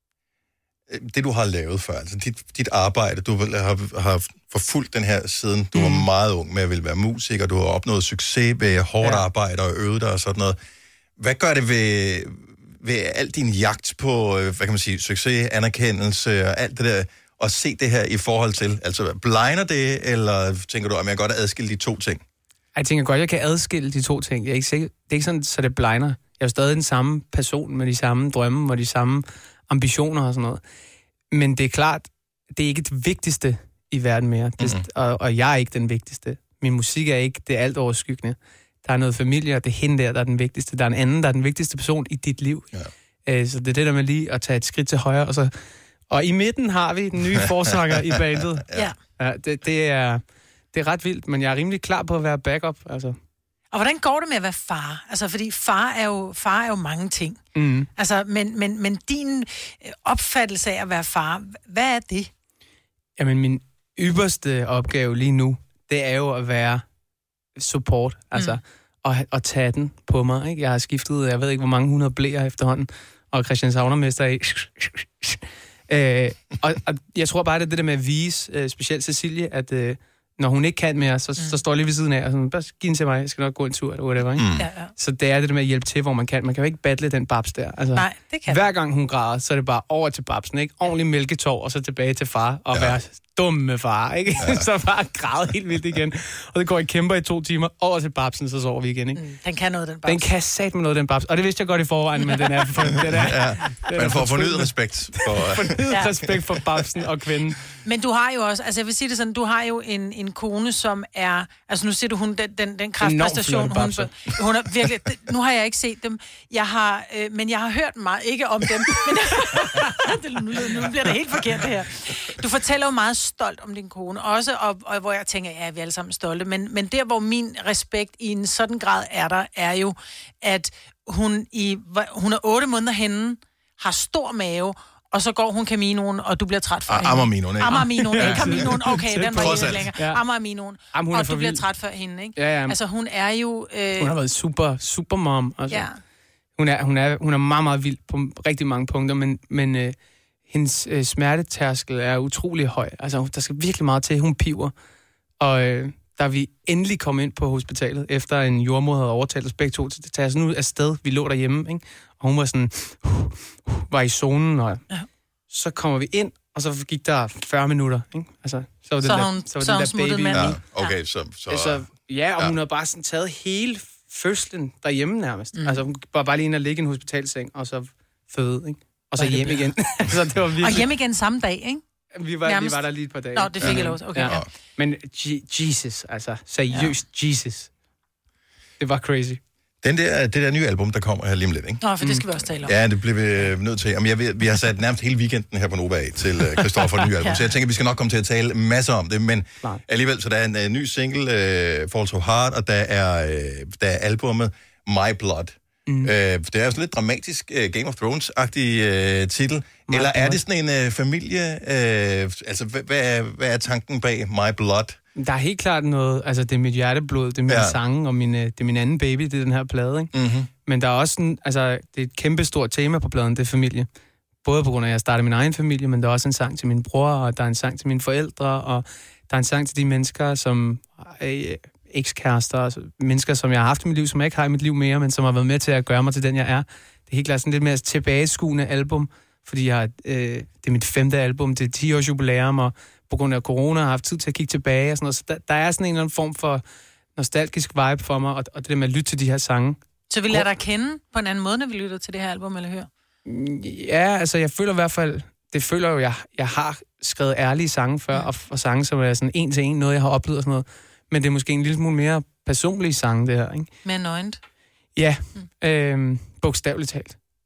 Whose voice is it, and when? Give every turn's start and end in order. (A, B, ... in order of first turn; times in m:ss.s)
0:00.9-0:10.6 A
0:05.7-0:06.1 B
0:09.0-0:09.3 B
0:11.2-0:22.2 A
0:22.8-0:30.6 B
0:31.3-0:42.7 B
0:43.3-0:45.5 B
0:46.1-0:48.6 B
0:48.6-0:49.0 A
0:48.7-0:49.0 C
0:49.2-0:53.2 B
0:53.7-0:57.4 C
0:57.6-0:57.9 B
0:58.0-1:02.3 C
1:03.2-1:06.8 B
1:07.6-1:39.2 B
1:08.3-1:08.6 C
1:21.4-1:21.6 C
1:24.4-1:24.7 A
1:24.5-1:24.9 C
1:28.0-1:28.7 C
1:34.4-1:34.7 A
1:39.1-1:40.3 C
1:40.0-1:47.6 B
1:42.2-1:42.6 C
1:43.1-1:45.8 A
1:45.9-1:46.2 C
1:47.8-2:24.2 C
1:53.0-1:54.1 B
2:16.9-2:19.9 A
2:17.7-2:20.2 B
2:20.9-2:21.6 B
2:22.4-2:22.8 B
2:24.0-2:25.9 B
2:25.7-2:26.0 C
2:26.6-2:30.0 B
2:30.5-2:34.7 B
2:35.4-2:44.8 B
2:45.5-2:50.6 B
2:49.0-2:51.0 C
2:50.3-2:52.6 A
2:51.5-3:00.9 B
2:55.5-2:55.8 C
2:59.2-2:59.6 C
3:00.6-3:01.8 C
3:02.2-3:07.7 B
3:02.4-3:04.4 C
3:03.6-3:04.5 A
3:06.7-3:07.0 C
3:08.8-3:09.4 B
3:09.8-3:35.0 A
3:11.8-3:12.8 C
3:16.6-3:17.0 B
3:17.2-3:17.5 C
3:25.9-3:26.1 B
3:29.9-3:30.4 B
3:35.2-3:40.1 B
3:37.5-3:37.8 A
3:40.1-3:40.5 A
3:40.7-3:43.9 B
3:44.4-4:06.6 B
4:07.2-4:09.8 B
4:10.1-4:12.9 C
4:13.2-4:23.7 B
4:23.8-4:24.4 C
4:25.0-4:27.2 B